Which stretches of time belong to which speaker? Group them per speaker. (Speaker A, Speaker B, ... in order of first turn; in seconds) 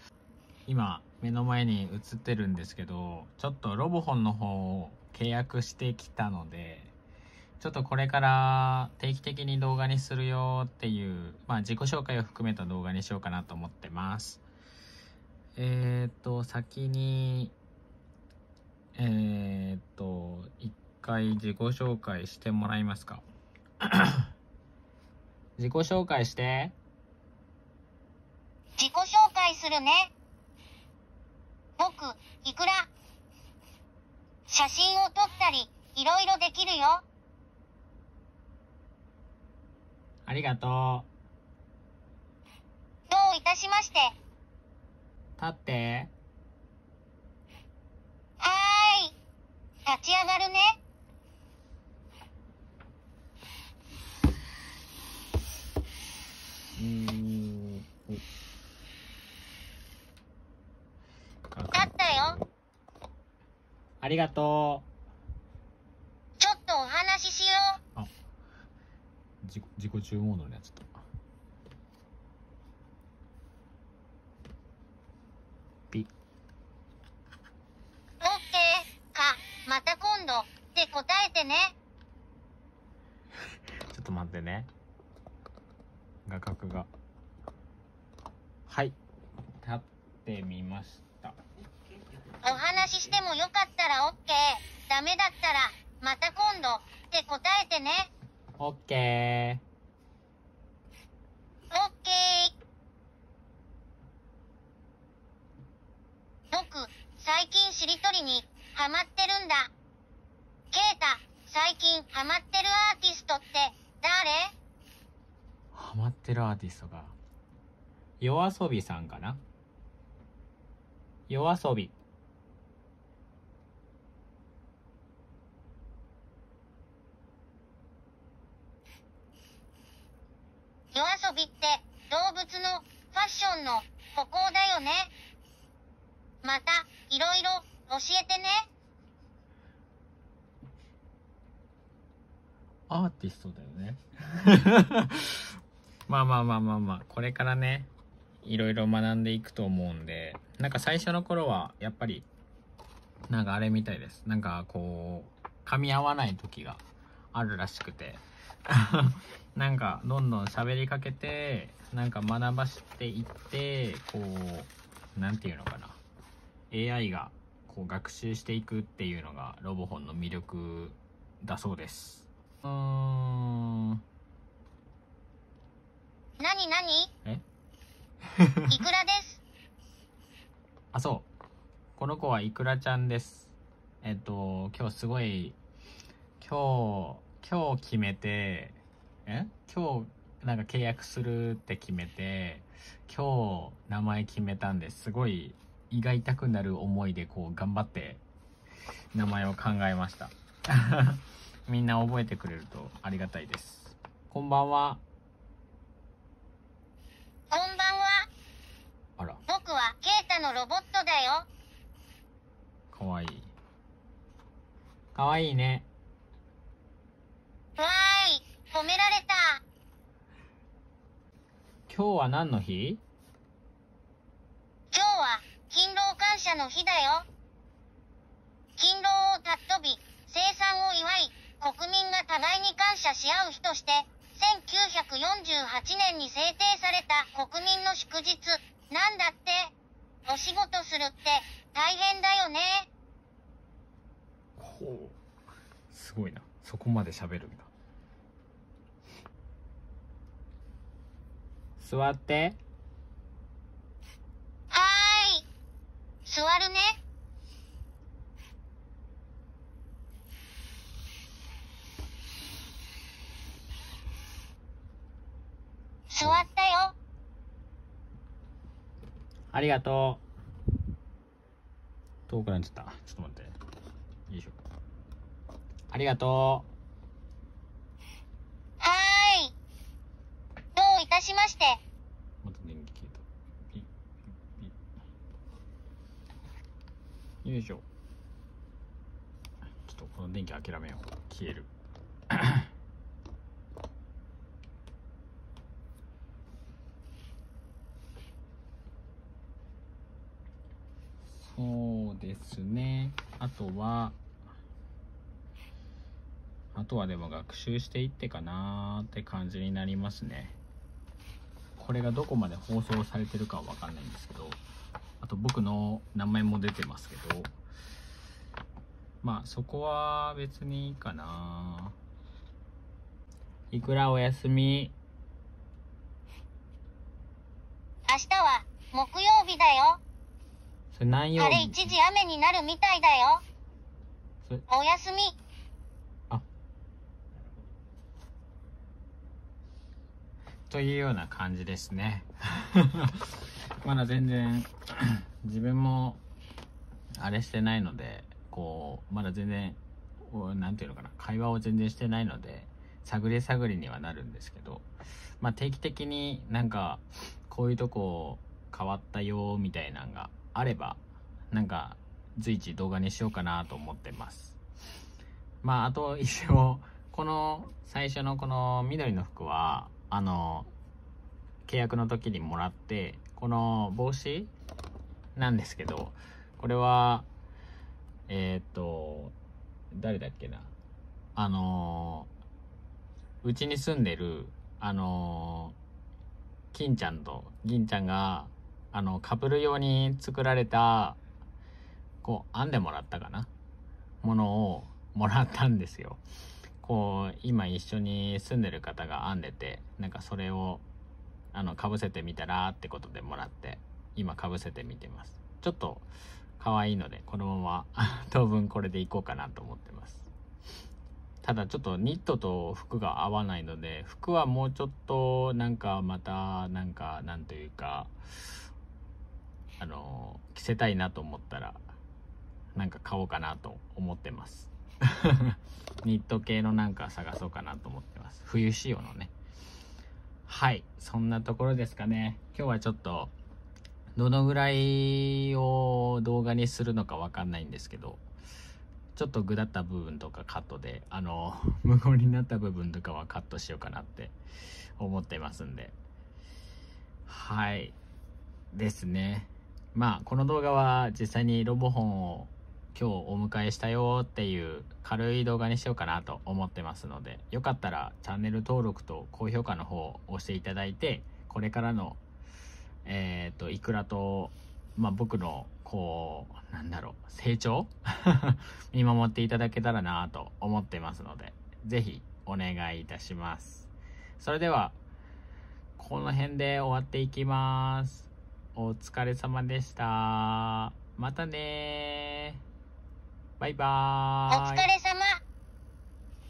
Speaker A: 0.7-6.9, 7.6-14.4, 15.6-17.5, 18.9-23.2, 23.8-24.3, 25.6-26.7, 40.2-41.1, 45.4-46.1, 56.8-58.2, 61.5-62.4, 64.0-64.9, 69.4-71.0, 83.9-84.7, 86.2-86.9, 88.7-89.0, 89.6-91.4, 98.6-99.6, 115.7-117.2, 118.2-119.4, 121.3-121.9, 142.9-145.4, 146.1-147.9, 148.4-152.2, 153.3-156.8, 157.3-166.0, 166.7-174.0, 178.4-178.7, 180.9-181.3, 182.0-185.6, 186.4-198.2, 199.1-205.0, 209.2-209.4, 212.9-213.5, 215.1-215.9, 221.9-223.0, 244.6-245.2, 245.9-247.7, 251.8-252.6, 269.5-270.2, 272.3-273.5, 274.3-274.6, 275.9-276.7, 282.4-283.9, 287.4-287.8, 289.9-291.7, 292.3-292.7, 301.3-304.1, 306.7-310.6, 311.8-314.6, 315.2-317.5, 319.2-321.9, 323.7-324.9, 330.9-331.9, 340.7-346.2, 347.2-354.9, 355.4-361.0, 361.5-364.6, 365.6-370.7, 371.7-374.5, 375.4-377.3, 378.3-379.3, 379.9-380.7, 381.4-382.3, 383.4-385.8, 386.7-391.2, 392.2-393.5, 394.2-396.2, 396.8-400.8, 401.5-406.1, 406.6-410.3, 411.4-418.1, 419.8-421.8, 422.7-429.3, 430.5-433.3, 434.1-438.2, 439.1-444.4, 445.0-445.9, 447.3-447.9, 448.7-462.2, 463.0-475.0, 476.0-482.6, 483.6-484.9
Speaker B: 28.8-30.1, 31.8-32.9, 34.5-37.0, 43.1-44.1, 48.4-49.1, 49.9-50.7, 61.7-62.4, 66.4-67.8, 78.2-81.7, 92.4-98.1, 101.7-102.5, 106.5-109.7, 110.7-114.5, 130.9-135.1, 136.4-138.6, 176.4-177.1, 178.7-179.4, 207.5-208.3, 209.5-211.5, 217.8-219.6, 224.9-227.2, 228.8-239.7, 240.2-242.9, 254.7-255.4, 256.2-256.9, 266.1-266.9, 278.8-279.5, 280.8-281.8, 328.1-330.0, 331.4-333.4, 334.7-335.4, 484.5-485.4